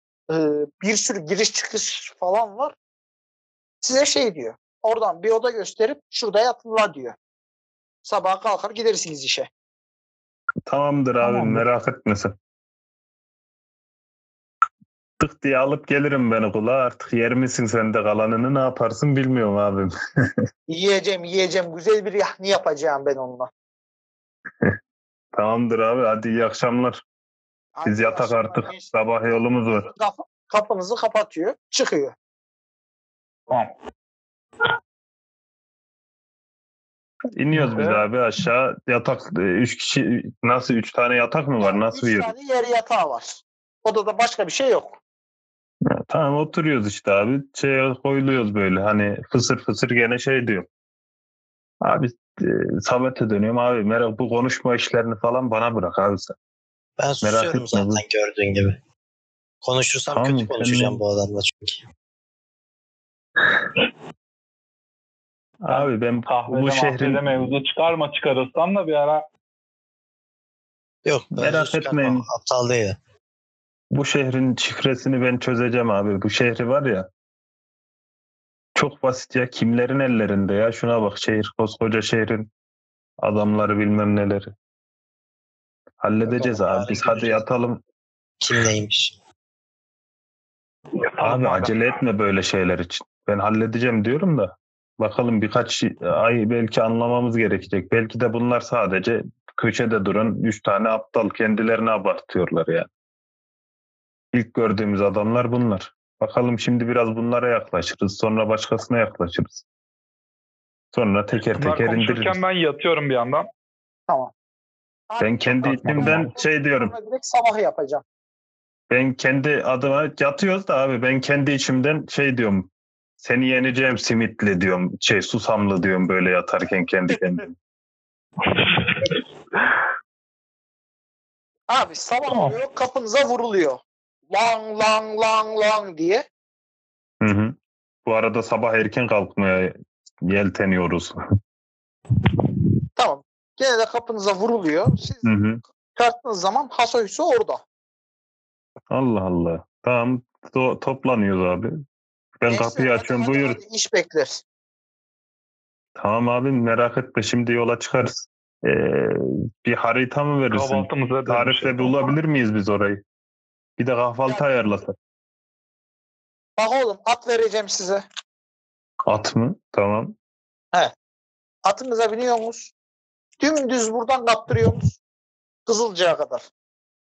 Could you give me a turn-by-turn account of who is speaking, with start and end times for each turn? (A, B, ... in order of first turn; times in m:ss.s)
0:00.3-0:02.8 A
0:03.8-0:07.2 A
0:08.0-0:09.5 A
0:10.7-0:12.3 B
0:11.2-0:11.6 C
0:15.2-0:19.9 B
0:20.7-0:23.5 A
0:25.3-0:27.0 B
0:27.8-0:32.2 A
0:27.8-0:29.9 B
0:37.4-0:42.3 B
0:37.6-0:38.1 C
0:41.6-0:45.0 A
0:45.9-0:50.7 B
0:51.8-0:56.4 B
0:57.0-0:58.8 D
0:57.2-0:58.0 B
0:59.6-1:01.8 D
1:00.1-1:01.0 B
1:05.6-1:07.5 B
1:05.7-1:09.2 C
1:11.0-1:13.0 D
1:11.4-1:12.2 B
1:13.9-1:17.1 B
1:18.8-1:22.5 B
1:23.2-1:24.5 B
1:26.0-1:27.8 B
1:26.2-1:27.4 D
1:28.4-1:29.2 D
1:31.2-1:31.8 C
1:31.2-1:42.9 B
1:44.3-1:49.6 B
1:50.9-1:52.4 B
1:51.6-1:53.5 C
1:55.1-1:58.0 A
1:55.2-1:56.9 B
1:55.8-1:56.3 C
1:58.9-2:02.7 B
2:03.2-2:07.6 B
2:08.4-2:09.8 C
2:11.7-2:13.8 A
2:12.3-2:12.6 C
2:14.3-2:16.2 A
2:17.2-2:21.2 B
2:23.0-2:25.4 A
2:25.2-2:25.6 B
2:25.9-2:27.6 A
2:28.9-2:31.8 B
2:32.4-2:33.6 B
2:32.5-2:34.4 A
2:36.0-2:43.0 B
2:40.5-2:42.1 C
2:43.8-2:45.0 B
2:46.6-2:48.0 A
2:49.1-2:50.2 B
2:51.6-2:52.7 A
2:53.4-2:55.0 A
2:55.7-2:56.5 A